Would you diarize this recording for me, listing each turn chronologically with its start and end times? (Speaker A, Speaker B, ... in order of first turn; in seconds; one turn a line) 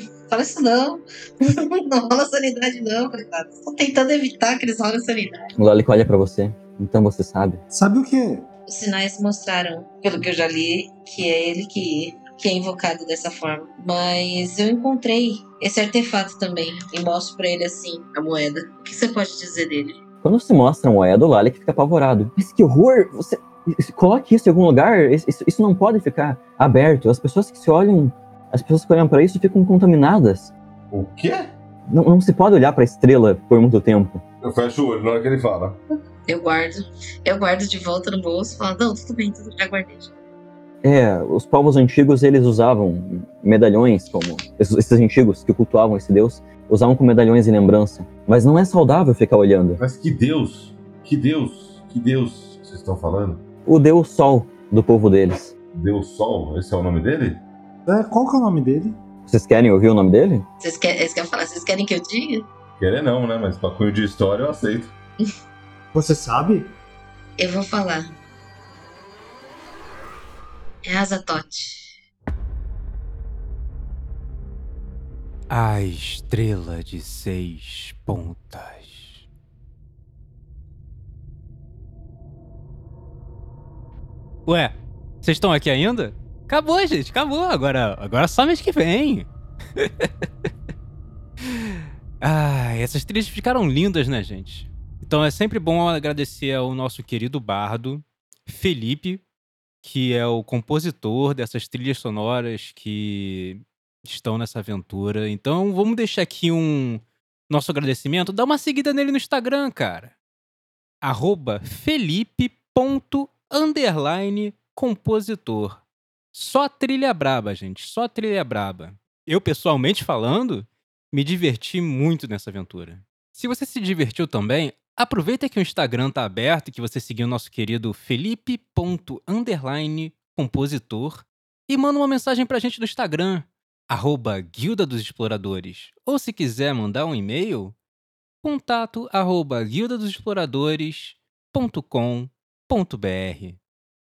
Speaker A: 0.3-5.5
Speaker B: 5.6-7.6
Speaker C: 7.7-8.5
Speaker A: 8.7-20.0
Speaker B: 20.2-30.5
Speaker D: 30.9-31.5
Speaker B: 31.9-34.2
Speaker D: 34.4-35.8
Speaker A: 36.3-40.1
Speaker B: 40.8-49.8
Speaker D: 49.8-53.4
Speaker B: 53.6-55.5
Speaker D: 55.7-57.4
Speaker C: 57.9-59.0
Speaker B: 59.3-60.4
Speaker A: 60.6-62.5
Speaker D: 62.8-64.9
Speaker C: 65.9-66.7
Speaker A: 67.4-68.1
Speaker A: 70.8-71.9
Speaker E: 75.5-79.3
Speaker E: 84.5-90.5
Speaker E: 91.4-99.2
Speaker E: 99.8-110.1
Speaker E: 111.0-115.8
Speaker E: 116.3-137.8
Speaker E: 138.4-143.6